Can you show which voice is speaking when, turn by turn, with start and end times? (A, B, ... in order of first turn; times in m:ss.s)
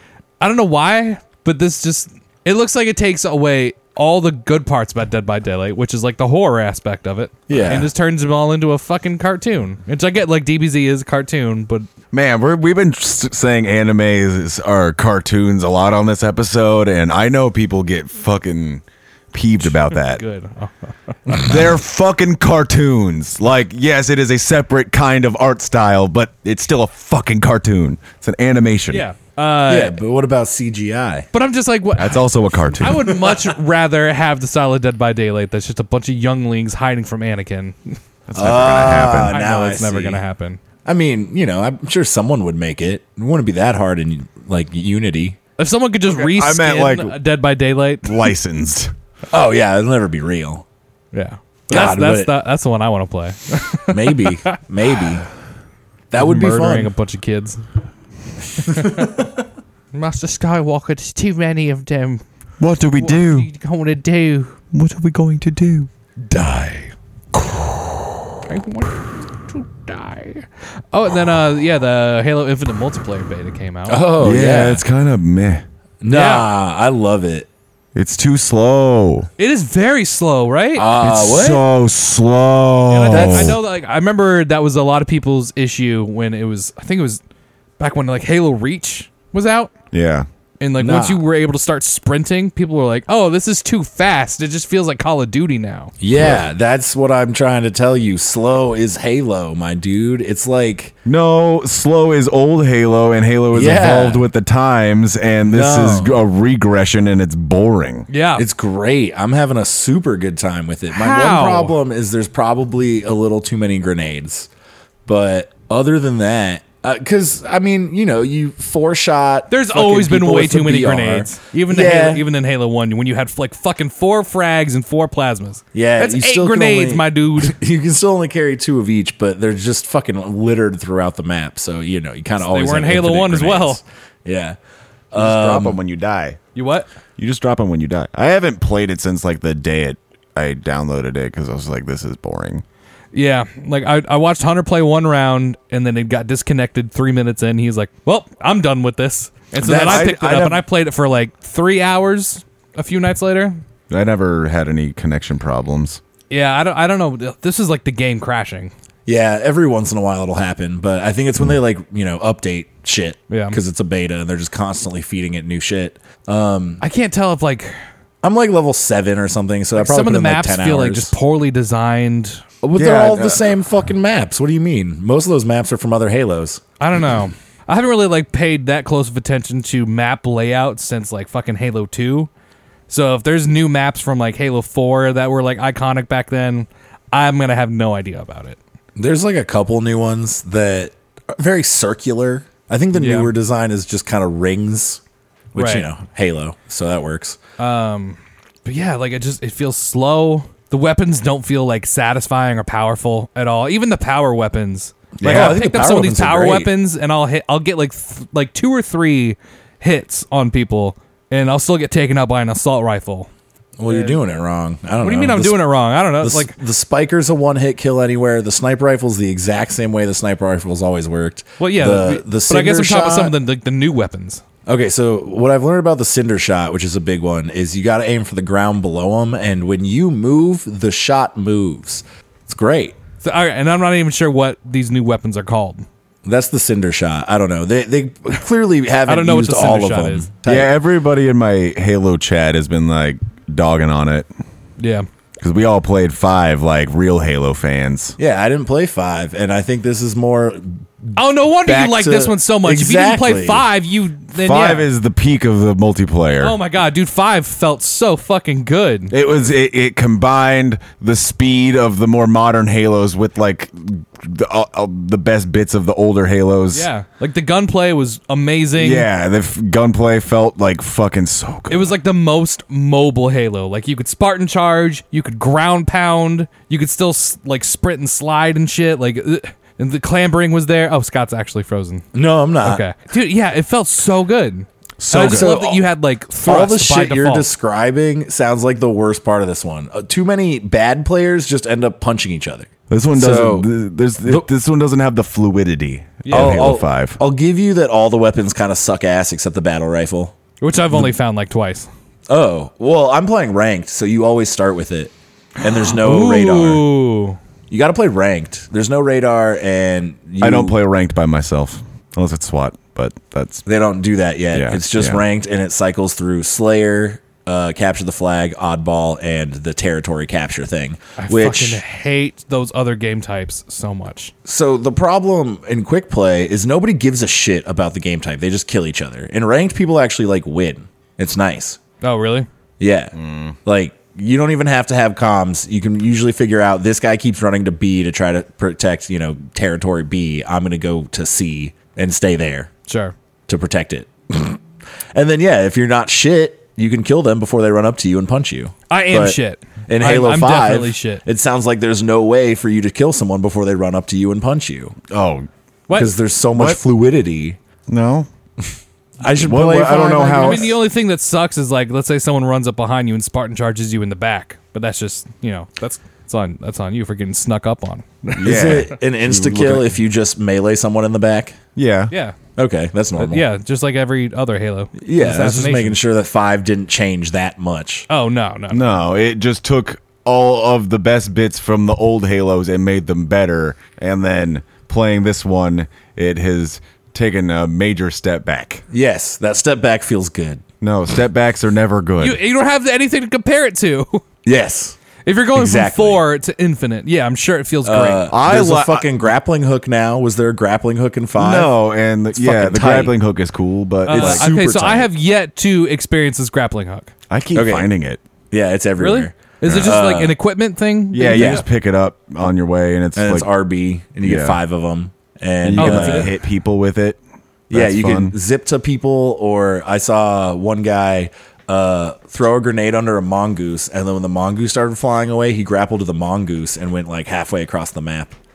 0:00.4-0:11.9 A
0:07.5-0:07.9 B
0:12.1-0:20.2 C
0:19.6-0:21.5 A
0:21.3-0:29.0 C
0:28.9-0:30.0 A
0:29.7-0:31.3 B
0:31.3-0:38.0 A
0:32.0-0:33.1 C
0:38.3-0:39.4 C
0:38.4-0:40.2 B
0:39.3-0:40.6 A
0:40.8-0:45.4 B
0:45.6-0:48.3 A
0:46.1-0:47.2 C
0:48.0-0:48.9 C
0:49.3-0:50.6 B
0:51.1-0:54.6 A
0:51.7-0:52.3 B
0:53.9-0:55.2 B
0:56.1-0:56.9 B
0:56.2-0:57.6 A
0:58.5-0:59.1 A
0:59.9-1:02.2 A
1:02.6-1:03.5 C
1:03.0-1:04.6 A
1:04.7-1:05.9 C
1:06.3-1:06.9 B
1:08.4-1:14.0 A
1:13.9-1:14.8 B
1:14.2-1:15.6 C
1:16.0-1:17.5 B
1:16.1-1:16.5 A
1:17.9-1:19.3 C
1:19.4-1:20.9 A
1:20.7-1:21.6 B
1:21.0-1:23.6 C
1:22.9-1:27.2 A
1:23.1-1:23.6 B
1:27.8-1:29.7 A
1:29.9-1:30.2 C
1:30.6-1:35.9 A
1:30.8-1:31.2 B
1:36.0-1:40.9 B
1:36.1-1:36.4 C
1:41.0-1:48.1 C
1:43.5-1:44.2 B
1:45.5-1:46.2 B
1:48.1-1:48.4 A
1:48.4-1:54.5 B
1:50.9-1:51.7 A
1:55.0-2:02.2 B
1:59.5-2:07.6 A
2:05.7-2:14.6 B
2:12.4-2:13.8 A
2:15.1-2:15.8 B
2:15.1-2:16.4 C
2:16.5-2:16.9 A
2:17.2-2:22.6 C
2:23.1-2:33.6 A
2:29.6-2:30.1 B
2:29.6-2:30.6 C
2:33.9-2:36.0 C
2:36.3-2:38.7 A
2:39.0-2:46.8 B
2:43.3-2:43.6 A
2:46.8-2:47.7 A
2:48.2-2:51.1 B
2:49.8-2:52.5 A
2:52.6-2:56.6 B
2:52.8-2:53.4 C
2:56.8-3:02.3 A
3:02.9-3:08.6 A
3:09.0-3:15.0 B
3:12.9-3:13.3 A
3:15.5-3:17.4 B
3:15.5-3:15.9 A
3:17.6-3:33.3 A
3:25.2-3:26.7 B
3:25.2-3:25.6 C
3:33.8-3:43.3 B
3:33.9-3:34.2 A
3:35.0-3:36.5 A
3:41.6-3:44.4 A
3:44.6-3:53.0 B
3:53.2-3:55.8 A
3:56.2-4:00.7 B
3:59.1-4:00.3 A
4:00.4-4:04.3 C
4:04.8-4:05.1 A
4:05.4-4:08.2 C
4:08.2-4:13.7 B
4:11.2-4:14.9 A
4:14.4-4:16.5 C
4:16.4-4:19.1 A
4:19.1-4:26.9 C
4:26.7-4:29.1 A
4:28.8-4:31.9 C
4:31.7-4:42.0 A
4:42.1-4:42.8 B
4:42.6-4:47.5 A
4:45.0-4:45.5 C
4:45.1-4:45.8 B
4:46.4-4:53.7 B
4:52.9-4:57.2 C
4:54.2-4:54.5 B
4:56.2-4:56.6 A
4:56.3-5:00.3 B
5:00.6-5:01.9 A
5:02.3-5:06.8 B
5:05.6-5:07.4 A
5:07.7-5:10.7 B
5:10.4-5:13.6 C
5:13.6-5:21.8 B
5:14.5-5:15.2 C
5:21.2-5:24.3 A
5:24.4-5:31.8 B
5:32.0-5:32.5 A
5:32.8-5:42.7 B
5:33.1-5:33.6 C
5:42.9-5:43.1 A
5:43.5-5:44.6 B
5:45.1-5:54.9 B
5:48.9-5:51.2 A
5:55.1-5:55.5 C
5:55.9-5:56.1 A
5:55.9-5:57.6 B
5:56.5-5:56.8 C
5:57.9-5:58.3 C
5:59.2-6:00.8 B
5:59.4-6:00.7 C
6:00.4-6:08.8 A
6:08.3-6:09.9 C
6:08.4-6:11.6 B
6:11.8-6:12.1 C
6:12.1-6:12.4 A
6:12.6-6:13.4 B
6:13.2-6:16.0 A
6:15.0-6:18.1 B
6:18.1-6:18.9 A
6:18.7-6:28.8 C
6:28.9-6:30.6 B
6:30.8-6:32.4 C
6:32.2-6:34.2 A
6:34.4-6:35.0 B
6:35.2-6:38.3 A
6:35.5-6:36.2 B
6:37.8-6:41.7 B
6:38.3-6:39.1 C
6:41.4-6:44.5 C
6:42.3-6:43.2 B
6:44.1-6:45.1 B
6:44.1-6:47.1 A
6:47.3-6:48.2 C
6:47.5-6:47.9 B
6:48.5-6:50.4 B
6:49.0-6:51.6 A
6:49.6-6:49.9 C
6:51.1-6:53.5 C
6:51.3-6:51.6 B
6:53.2-6:56.3 B
6:54.2-6:54.6 C
6:55.6-6:57.2 C
6:55.7-6:56.3 A
6:57.7-7:08.4 B
6:57.7-6:58.4 C